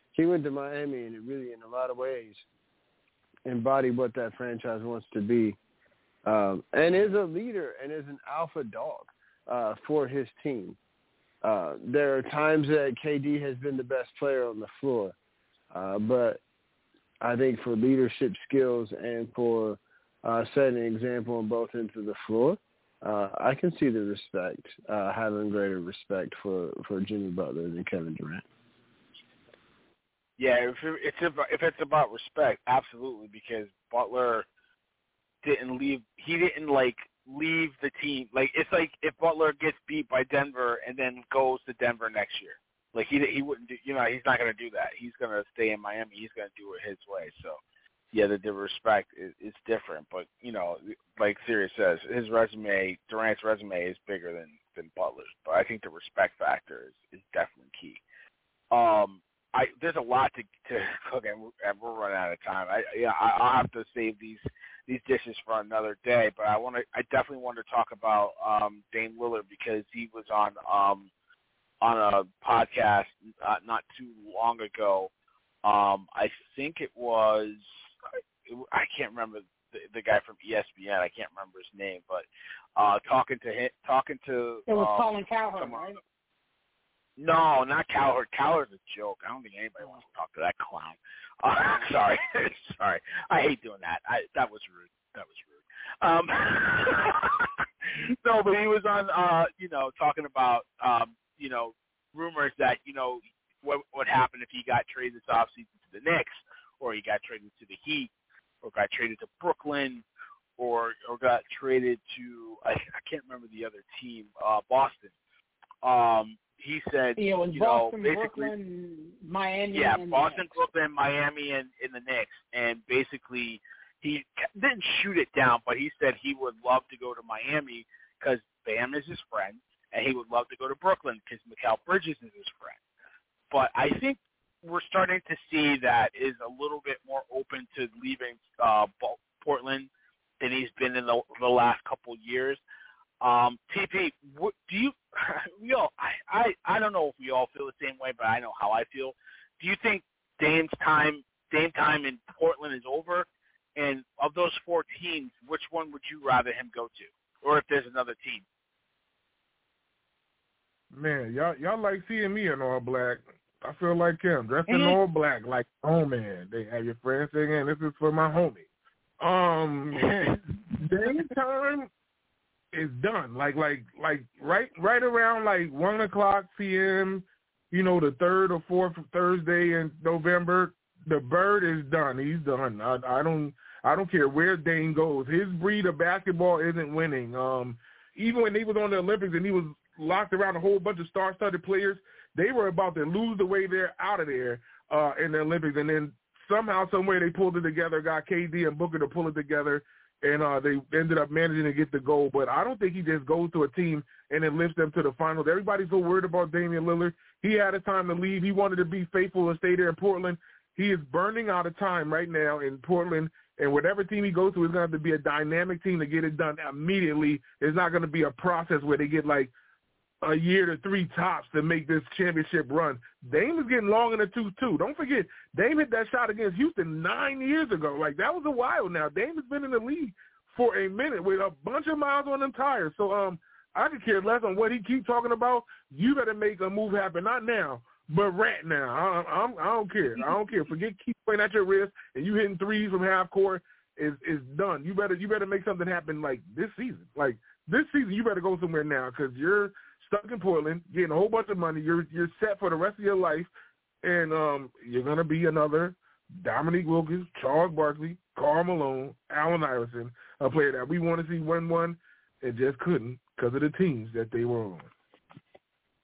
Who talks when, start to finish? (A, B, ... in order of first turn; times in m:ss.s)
0:00.2-0:02.4 A
0:03.5-0:05.6 A
0:06.3-0:10.8 A
0:11.4-0:15.2 A
0:15.7-0:16.4 A
0:17.2-0:28.4 A
0:30.4-0:34.4 B
0:35.4-0:47.6 B
0:48.1-0:58.0 B
0:58.7-1:11.1 B
1:11.8-1:15.1 B
1:15.6-1:17.7 B
1:18.5-1:26.0 B
1:24.7-1:26.0 C
1:27.2-1:48.1 B
1:48.6-1:50.0 B
1:50.6-1:55.1 B
1:55.8-1:58.5 B
1:57.2-2:00.6 C
1:59.7-2:12.8 B
2:13.5-2:22.6 B
2:23.2-2:38.4 B
2:40.9-2:48.6 D
2:44.7-2:45.0 B
2:49.2-2:50.2 D
2:50.0-2:51.3 B
2:50.8-2:51.9 D
2:52.7-3:39.5 D
3:40.2-4:13.5 D
4:14.0-4:24.9 D